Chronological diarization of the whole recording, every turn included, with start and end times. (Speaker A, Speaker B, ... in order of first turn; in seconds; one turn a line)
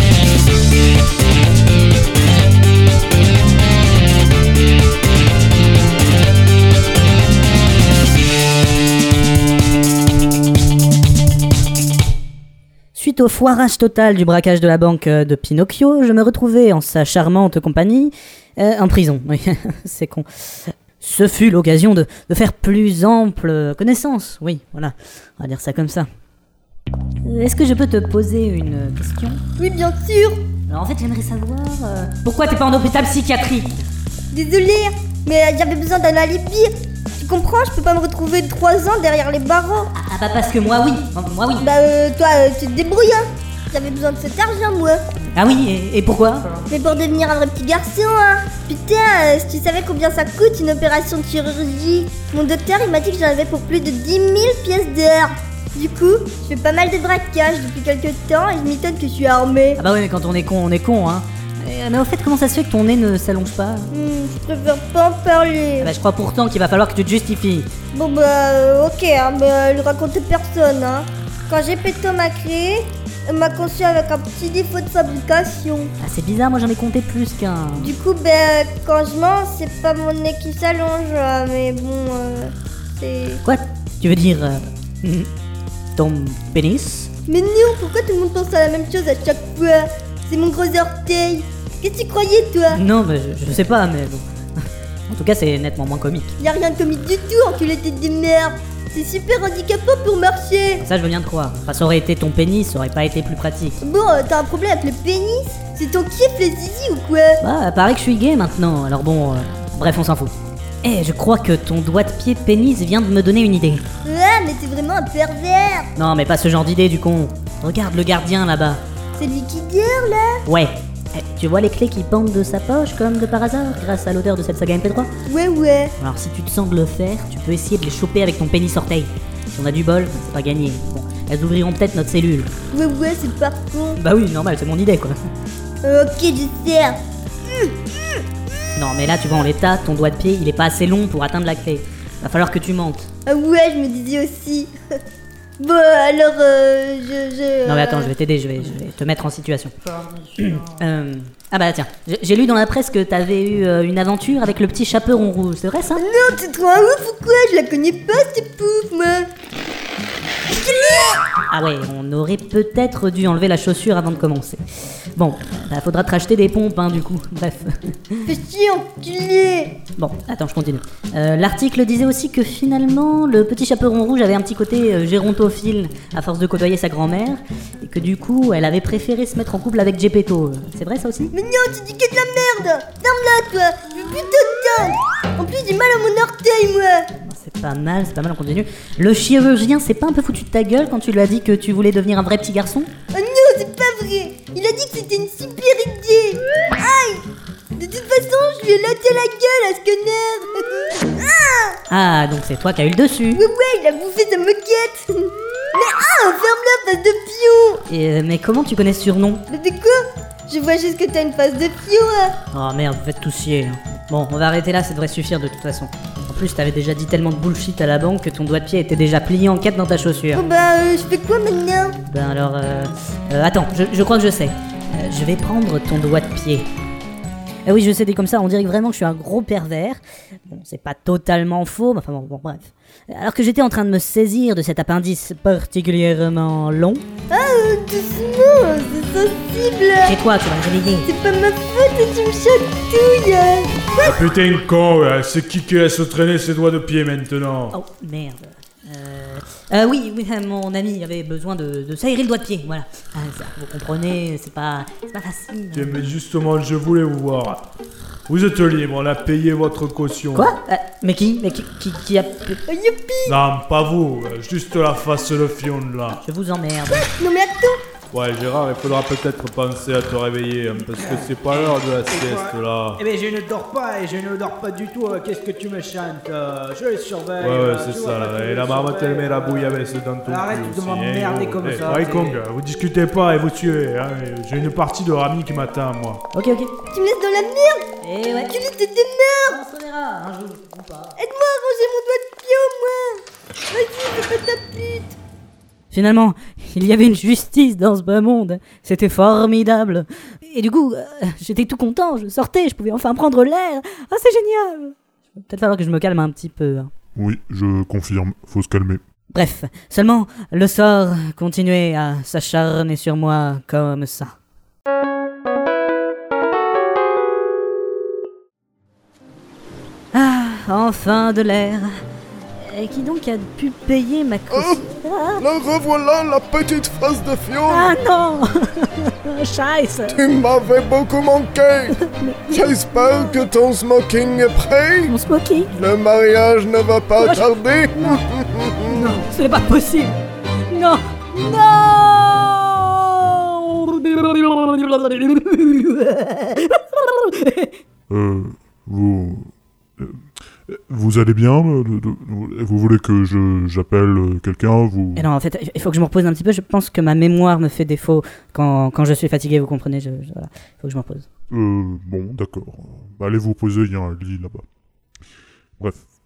Speaker A: 12.9-26.1
Speaker A: 27.2-29.4
Speaker B: 29.6-30.4
Speaker A: 30.7-33.8
Speaker B: 34.3-39.9
Speaker A: 39.9-41.7
Speaker B: 41.6-45.0
Speaker A: 45.3-46.5
Speaker B: 46.7-59.8
Speaker A: 59.8-63.9
Speaker B: 63.9-65.9
Speaker A: 65.8-67.7
Speaker B: 67.9-75.9
Speaker A: 76.0-77.9
Speaker B: 77.8-83.4
Speaker A: 83.4-85.3
Speaker A: 86.0-87.1
Speaker B: 87.3-92.8
Speaker A: 92.7-94.2
Speaker A: 95.1-96.3
Speaker B: 96.4-100.8
Speaker A: 100.8-103.8
Speaker B: 103.8-107.4
Speaker A: 107.4-113.8
Speaker B: 114.0-115.9
Speaker A: 116.0-118.8
Speaker B: 119.2-120.4
Speaker A: 120.5-125.1
Speaker B: 125.3-125.9
Speaker A: 126.0-132.5
Speaker B: 132.7-134.0
Speaker A: 134.0-135.2
Speaker B: 135.8-137.0
Speaker B: 137.5-137.9
Speaker A: 138.8-143.1
Speaker B: 143.3-144.7
Speaker B: 145.6-148.1
Speaker A: 147.7-149.7
Speaker A: 150.3-156.0
Speaker B: 156.0-159.3
Speaker B: 160.5-161.2
Speaker A: 161.5-164.6
Speaker A: 165.2-168.2
Speaker B: 168.3-169.8
Speaker A: 170.0-181.3
Speaker B: 181.3-187.1
Speaker A: 187.2-192.9
Speaker B: 193.1-197.2
Speaker B: 197.8-201.8
Speaker A: 201.9-203.4
Speaker B: 203.3-207.8
Speaker A: 207.9-209.4
Speaker B: 209.5-212.3
Speaker A: 212.5-220.4
Speaker B: 220.3-222.0
Speaker A: 222.1-226.7
Speaker A: 227.7-237.0
Speaker B: 237.3-240.2
Speaker A: 240.1-241.1
Speaker B: 241.0-244.2
Speaker C: 244.0-247.7
Speaker A: 247.7-256.1
Speaker C: 255.7-257.6
Speaker C: 258.3-260.5
Speaker A: 260.4-262.6
Speaker B: 262.7-263.4
Speaker C: 263.2-266.2
Speaker A: 266.2-267.1
Speaker B: 266.9-267.8
Speaker C: 268.1-273.0
Speaker D: 271.0-282.4
Speaker C: 277.4-286.2
Speaker A: 286.3-286.7
Speaker B: 286.9-287.9
Speaker A: 288.0-288.6
Speaker B: 288.5-289.6
Speaker A: 289.4-291.2
Speaker B: 291.2-295.2
Speaker A: 295.9-306.9
Speaker E: 307.1-309.0
Speaker A: 309.3-314.3
Speaker A: 320.1-321.9
Speaker A: 322.6-325.5
Speaker F: 324.5-324.8
Speaker F: 325.4-328.0
Speaker A: 327.7-330.2
Speaker F: 330.1-335.1
Speaker A: 332.0-332.6
Speaker A: 335.1-335.7
Speaker F: 335.7-339.1
Speaker A: 337.2-338.2
Speaker A: 338.8-340.2
Speaker A: 340.7-347.8
Speaker E: 348.1-355.3
Speaker A: 355.2-361.3
Speaker E: 361.5-364.6
Speaker E: 365.8-366.1